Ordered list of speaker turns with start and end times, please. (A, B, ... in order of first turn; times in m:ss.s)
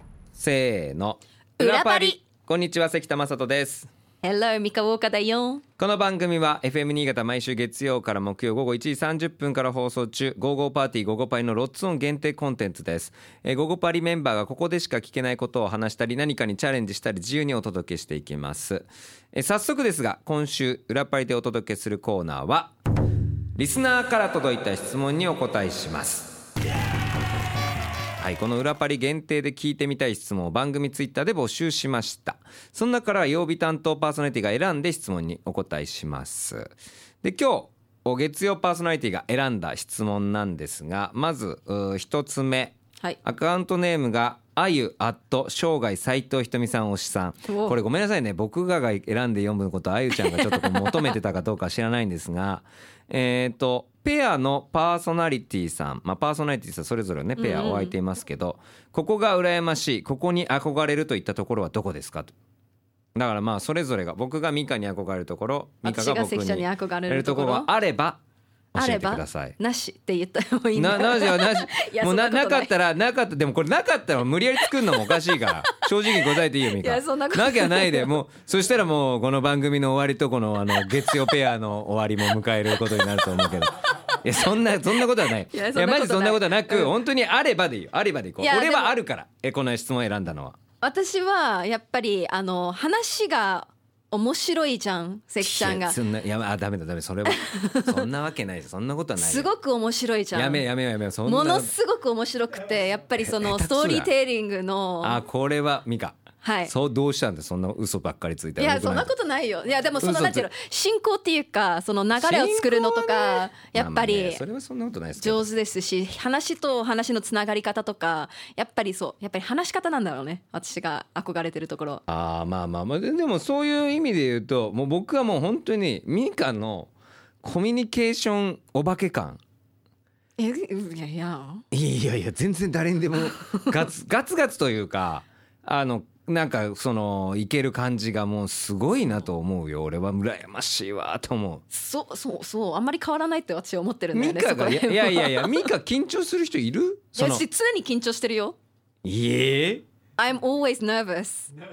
0:00.3-0:03.9 A
0:01.6-0:02.2 B
0:04.2-0:05.6 B
0:05.8-0:22.7 A
0:23.6-0:26.3 A
0:28.2-1:02.3 A
0:47.5-0:47.8 B
0:50.1-0:51.2 B
0:57.4-0:57.9 B
1:03.2-1:08.2 A
1:05.8-1:07.7 B
1:08.7-1:09.6 A
1:08.8-1:12.7 B
1:10.7-1:30.6 A
1:14.6-1:18.1 B
1:20.7-1:21.3 B
1:22.7-1:24.1 B
1:25.0-1:26.9 B
1:28.4-1:28.9 B
1:30.8-1:36.0 B
1:35.4-1:39.5 A
1:37.2-1:38.0 B
1:39.2-1:40.6 B
1:40.3-1:41.7 A
1:41.2-1:45.2 B
1:43.2-1:44.1 A
1:45.0-1:49.1 A
1:46.4-1:46.7 B
1:48.6-1:54.4 B
1:50.0-1:50.5 A
1:52.2-1:55.4 A
1:55.2-2:02.0 B
2:02.1-2:09.4 A
2:10.4-2:11.6 B
2:11.7-2:21.6 A
2:13.2-2:13.8 B
2:21.7-2:25.7 B
2:24.1-2:27.4 A
2:27.2-2:28.6 B
2:29.0-2:29.8 A
2:30.2-2:31.5 B